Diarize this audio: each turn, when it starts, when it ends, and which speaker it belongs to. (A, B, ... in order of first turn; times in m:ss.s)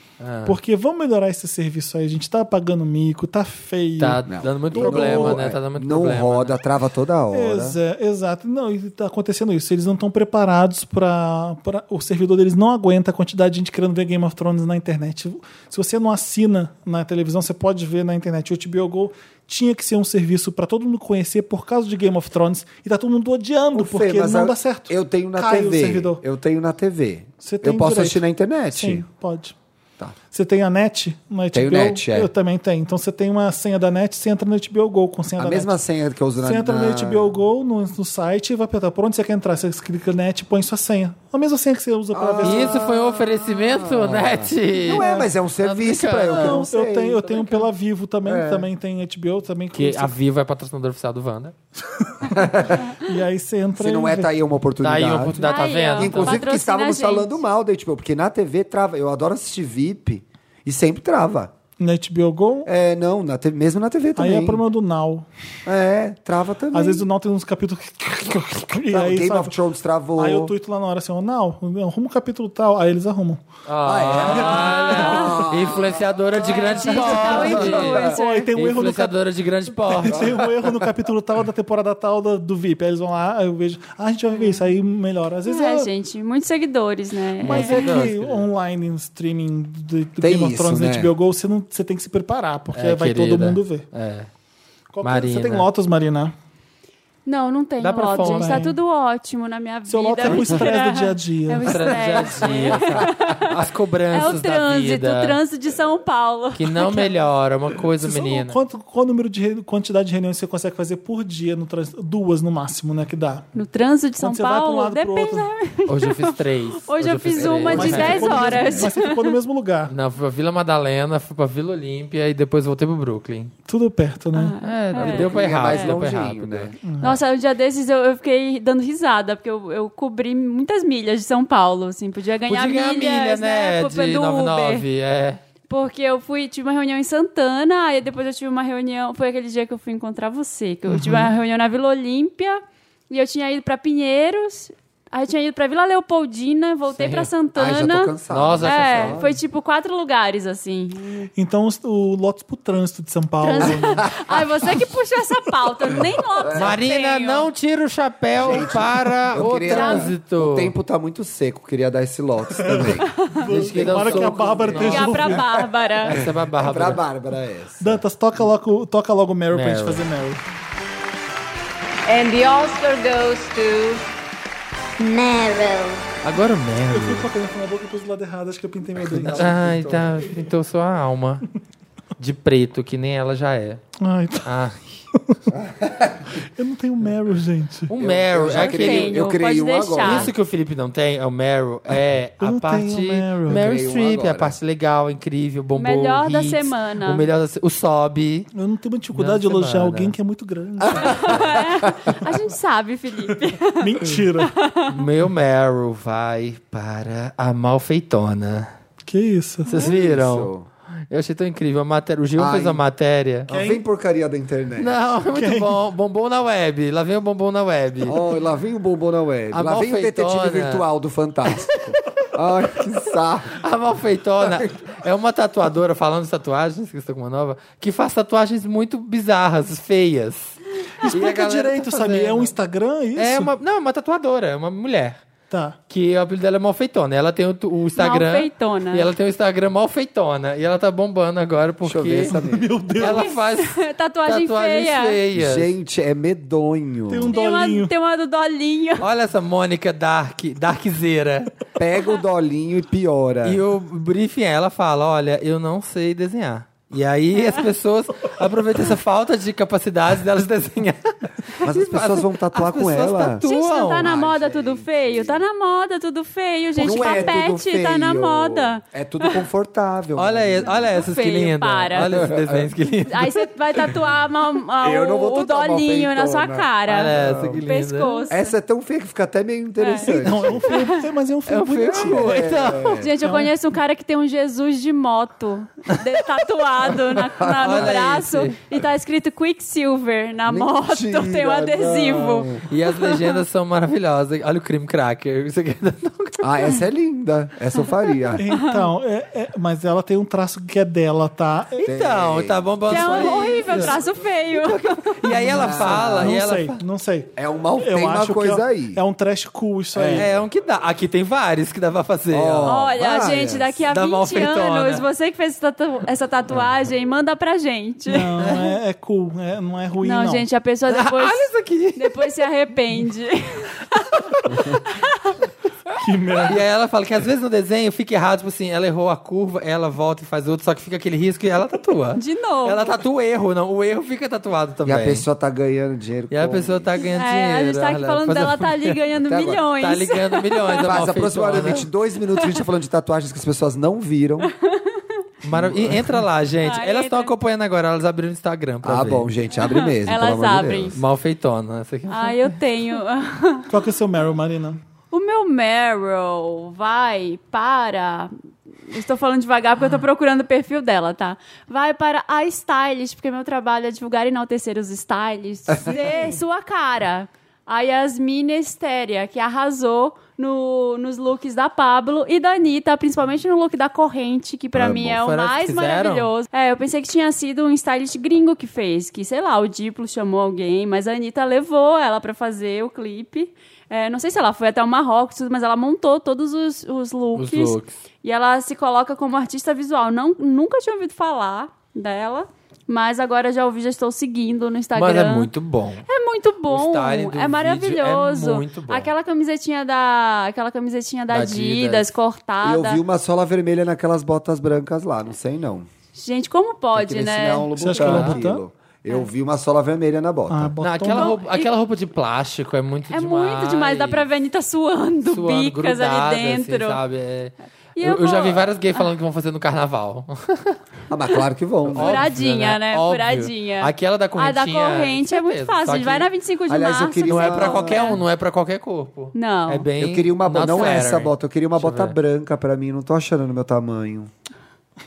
0:00.2-0:00.6 A
0:00.4-0:05.4 B
0:04.0-0:06.6 A
0:04.3-0:07.8 C
0:07.3-0:26.2 B
0:23.7-0:29.0 C
0:27.4-0:28.2 B
0:28.7-0:29.6 B
0:30.3-0:35.8 B
0:31.5-0:32.3 C
0:35.4-0:37.3 C
0:36.4-0:42.8 B
0:42.1-0:47.4 C
0:42.4-0:45.1 A
0:44.9-0:45.3 B
0:45.6-0:46.6 A
0:46.3-0:50.1 B
0:47.3-0:47.7 A
0:48.2-0:48.7 C
0:49.7-0:51.5 A
0:51.8-0:54.3 B
0:52.3-0:52.8 C
0:53.8-1:01.5 C
0:54.8-0:56.4 A
0:55.4-0:57.4 D
1:01.8-1:02.7 B
1:02.6-1:04.6 C
1:04.2-1:05.3 B
1:05.6-1:07.0 C
1:06.7-1:09.5 B
1:08.9-1:10.6 C
1:10.2-1:13.4 B
1:13.6-1:20.4 A
1:13.8-1:18.0 C
1:14.4-1:15.4 B
1:16.7-1:18.5 D
1:17.2-1:19.1 B
1:19.7-1:25.9 B
1:20.1-1:20.9 C
1:25.4-1:28.0 D
1:27.4-1:33.8 B
1:27.4-1:28.4 A
1:30.2-1:31.1 C
1:32.7-1:34.3 A
1:34.9-1:36.3 B
1:35.0-1:35.7 A
1:37.3-1:43.6 D
1:37.8-1:38.6 A
1:38.2-1:38.8 B
1:39.9-1:42.5 B
1:41.6-1:45.4 A
1:44.1-1:47.1 D
1:46.6-1:48.6 A
1:48.0-1:53.4 B
1:53.5-1:59.3 D
1:54.2-1:55.5 B
1:55.9-1:58.8 A
1:57.6-1:59.9 B
1:59.9-2:03.5 A
2:03.7-2:04.6 B
2:04.3-2:06.0 D
2:04.6-2:06.7 A
2:04.9-2:06.7 C
2:06.9-2:07.2 B
2:07.0-2:14.8 D
2:12.5-2:15.4 A
2:15.7-2:31.3 D
2:20.9-2:21.3 B
2:26.9-2:27.3 A
2:27.6-2:29.4 C
2:28.3-2:29.2 A
2:31.4-2:34.1 B
2:33.4-2:37.5 D
2:33.6-2:34.4 C
2:36.4-2:36.8 C
2:36.6-2:40.7 A
2:38.4-2:45.4 C
2:39.6-2:40.1 D
2:42.6-2:45.6 B
2:43.4-2:45.4 A
2:44.8-2:46.2 D
2:46.0-2:47.0 A
2:46.0-2:48.0 C
2:47.8-2:50.4 B
2:49.5-2:50.1 A
2:52.1-2:54.0 E
2:55.0-2:56.0 E
2:56.2-2:57.3 A
2:56.9-2:59.6 B
2:59.0-3:00.3 C
2:59.2-3:01.5 A
3:02.2-3:03.8 A
3:04.0-3:04.4 B
3:04.4-3:05.0 A
3:05.2-3:05.4 B
3:05.5-3:06.4 C
3:06.6-3:07.9 B
3:07.9-3:09.3 A
3:08.0-3:10.3 C
3:08.5-3:10.3 D
3:10.0-3:18.5 A
3:12.4-3:13.6 B
3:13.5-3:14.6 C
3:15.8-3:17.3 D
3:18.6-3:21.4 B
3:19.1-3:20.1 A
3:20.8-3:22.1 C
3:21.0-3:24.9 D
3:23.8-3:24.5 B
3:24.9-3:28.7 A
3:29.1-3:29.8 B
3:29.6-3:30.5 A
3:29.8-3:30.6 C
3:31.1-3:33.5 A
3:32.4-3:32.8 C
3:33.5-3:35.0 C
3:33.5-3:33.8 B
3:34.8-3:38.2 A
3:35.3-3:35.7 B
3:38.0-3:43.6 C
3:39.5-3:40.9 A
3:41.5-3:41.9 A
3:43.5-3:52.5 A
3:51.0-3:53.5 B
3:53.2-3:55.2 A
3:55.5-3:55.8 B
3:55.9-4:02.4 A
3:58.0-3:59.1 D
4:01.8-4:02.7 C
4:02.3-4:03.3 B
4:03.0-4:05.7 A
4:03.0-4:05.2 D
4:05.3-4:07.3 C
4:07.1-4:07.9 B
4:07.3-4:09.0 D
4:09.0-4:11.5 A
4:11.8-4:13.6 C
4:13.4-4:24.1 A
4:21.6-4:23.4 C
4:23.4-4:29.4 D
4:24.0-4:25.4 C
4:26.8-4:31.1 C
4:27.0-4:27.3 B
4:30.2-4:33.5 A
4:30.8-4:32.2 D
4:32.0-4:32.7 C
4:33.1-4:38.6 D
4:34.8-4:37.6 C
4:36.9-4:38.3 A
4:38.3-4:40.7 C
4:39.8-4:41.0 D
4:40.0-4:42.2 B
4:41.5-4:43.0 A
4:41.8-4:43.1 C
4:42.9-4:53.3 D
4:43.2-4:43.5 B
4:47.2-4:48.0 C
4:47.6-4:48.6 A
4:50.4-4:52.6 C
4:52.7-4:56.4 A
4:56.4-4:58.4 C
4:58.4-5:01.9 B
4:58.4-4:58.8 D
5:01.8-5:04.0 A
5:01.8-5:02.6 C
5:02.9-5:05.2 D
5:03.2-5:03.9 B
5:04.6-5:06.8 A
5:05.3-5:10.3 B
5:05.4-5:06.4 C
5:07.4-5:09.0 C
5:09.9-5:10.4 C
5:10.1-5:12.7 A
5:12.3-5:13.8 C
5:12.6-5:18.4 D
5:13.9-5:15.0 A
5:18.1-5:20.4 B
5:18.4-5:18.7 A
5:20.0-5:25.4 D
5:20.9-5:22.4 A
5:25.9-5:26.6 B
5:26.4-5:35.2 A
5:32.2-5:32.9 D
5:34.8-5:36.9 C
5:36.3-5:39.0 A
5:37.0-5:41.0 D
5:39.2-5:39.6 C
5:39.8-5:41.9 A
5:40.8-5:44.5 C
5:44.4-5:45.0 D
5:45.4-5:49.3 A
5:45.4-5:46.2 C
5:46.6-5:47.3 D
5:48.8-5:51.0 C
5:49.6-5:51.0 D
5:50.9-5:52.6 A
5:52.1-5:53.7 D
5:53.7-5:54.8 B
5:55.1-5:58.3 D
5:58.9-6:35.5 D
6:05.7-6:06.4 C
6:14.7-6:15.2 C
6:15.0-6:16.3 A
6:27.4-6:27.9 A
6:35.0-6:36.0 A
6:36.1-6:43.0 D
6:36.7-6:39.1 A
6:41.3-6:42.1 A
6:42.6-6:45.9 C
6:46.1-6:48.2 D
6:46.9-6:50.7 C
6:47.8-6:48.6 B
6:48.0-6:48.4 A
6:50.5-6:51.3 B
6:50.8-6:54.3 A
6:51.1-6:51.7 D
6:53.1-6:57.0 D
6:55.3-7:00.8 A
6:58.0-6:59.0 D
7:01.1-7:02.3 C
7:01.9-7:06.3 A
7:02.0-7:08.2 D
7:06.7-7:08.1 C
7:07.3-7:12.1 A
7:09.3-7:09.9 D
7:10.0-7:14.3 C